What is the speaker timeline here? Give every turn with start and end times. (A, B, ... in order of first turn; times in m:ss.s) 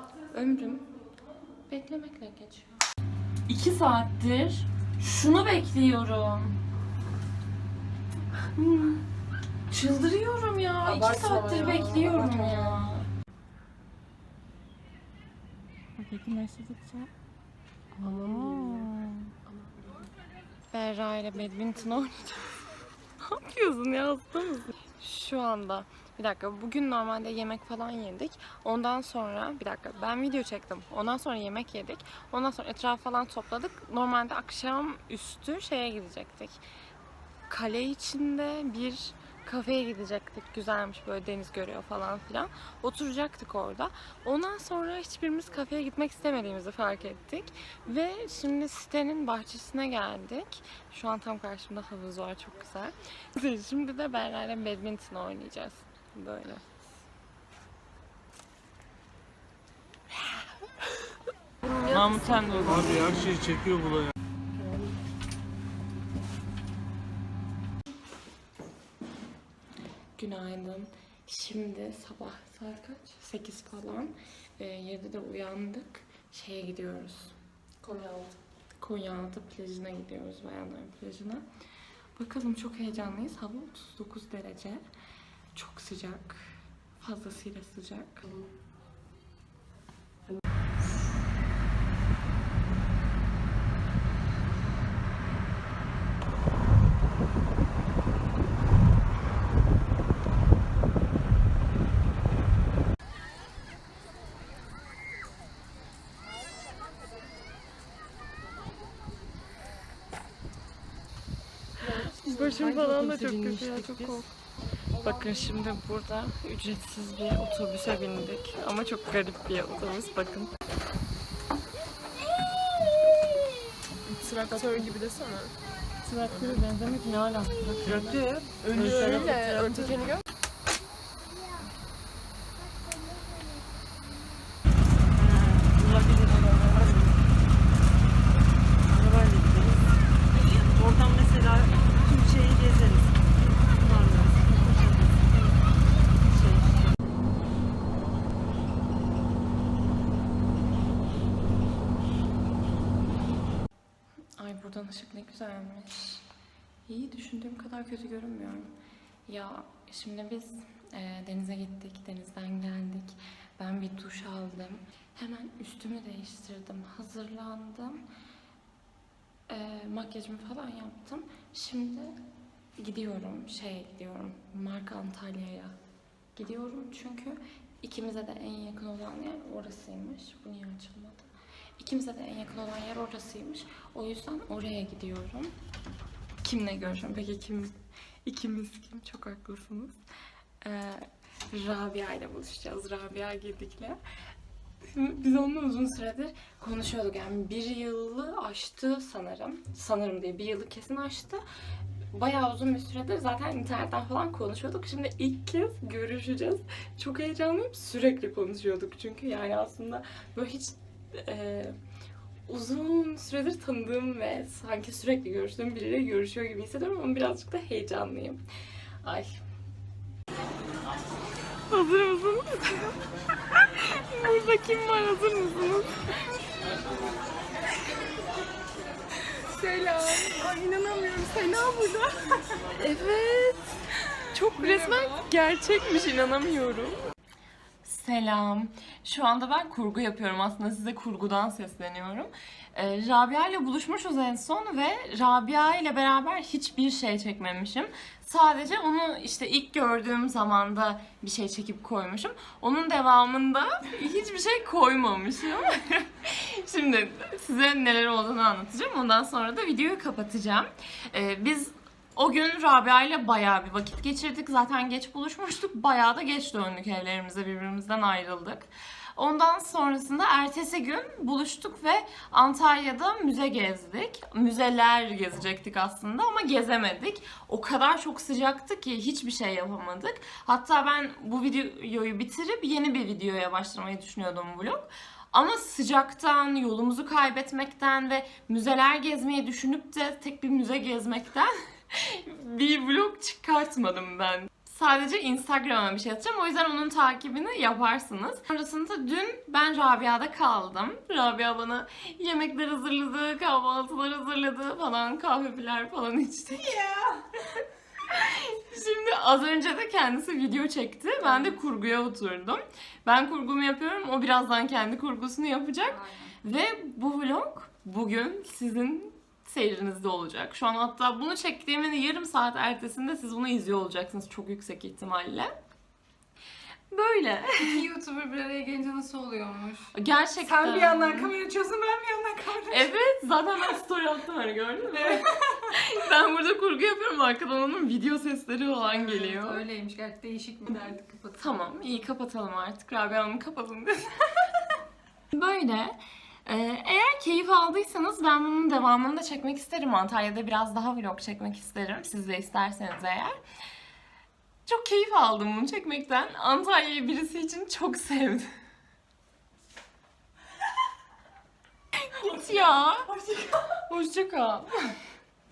0:00.3-0:00.9 A
0:01.5-0:02.7 A
0:03.5-0:06.6 A
0:08.6-0:09.0 A
0:09.7-0:13.1 A
0:10.9-0:11.5 B
0:11.2-0:11.8 C
0:16.0-0:17.1 A
0:18.0-0:19.3 A
0:18.1-0:18.8 B
0:20.7-0:22.6 A
0:23.2-0:36.6 A
0:37.5-0:56.7 A
1:01.7-1:04.0 A
1:10.2-1:17.4 A
1:17.9-1:18.2 B
1:18.8-1:21.4 A
1:22.2-1:24.8 A
1:25.5-1:28.2 A
1:52.2-1:54.3 A
1:52.8-1:54.2 D
1:55.0-2:00.5 A
2:04.2-2:05.5 C
2:04.5-2:04.9 A
2:04.6-2:05.1 B
2:06.0-2:08.2 A
2:07.8-2:10.1 D
2:08.7-2:10.1 C
2:09.2-2:09.5 B
2:15.1-2:17.2 D
2:18.9-2:19.8 D
2:20.5-2:25.6 D
2:26.3-2:26.9 D
2:34.4-2:36.2 A
2:36.9-2:38.7 A
2:39.3-2:48.0 A
2:49.5-2:52.2 A
2:52.8-2:55.8 A
2:56.4-3:01.3 A
3:01.8-3:05.5 A
3:06.4-3:07.7 A
3:08.2-3:10.0 A
3:10.6-3:14.0 A
3:14.8-3:21.4 A
3:22.1-3:31.8 A
3:32.5-3:38.4 A
3:39.0-3:39.4 A
3:41.7-3:43.0 A
3:43.5-3:46.3 A
3:49.4-3:52.4 B
3:52.7-3:53.7 A
3:54.3-3:57.0 A
3:54.5-3:55.2 B
3:57.8-5:25.5 A
5:11.2-5:11.5 B
5:15.9-5:16.4 B
5:26.9-5:27.9 A
5:27.6-5:32.9 B
5:29.9-5:31.4 A
5:32.7-5:39.6 A
5:35.0-5:35.5 B
5:38.8-5:41.8 B
5:41.4-5:44.5 A
5:45.3-5:53.3 A
5:54.6-5:58.5 A
6:02.0-6:03.2 A
6:03.7-6:04.9 A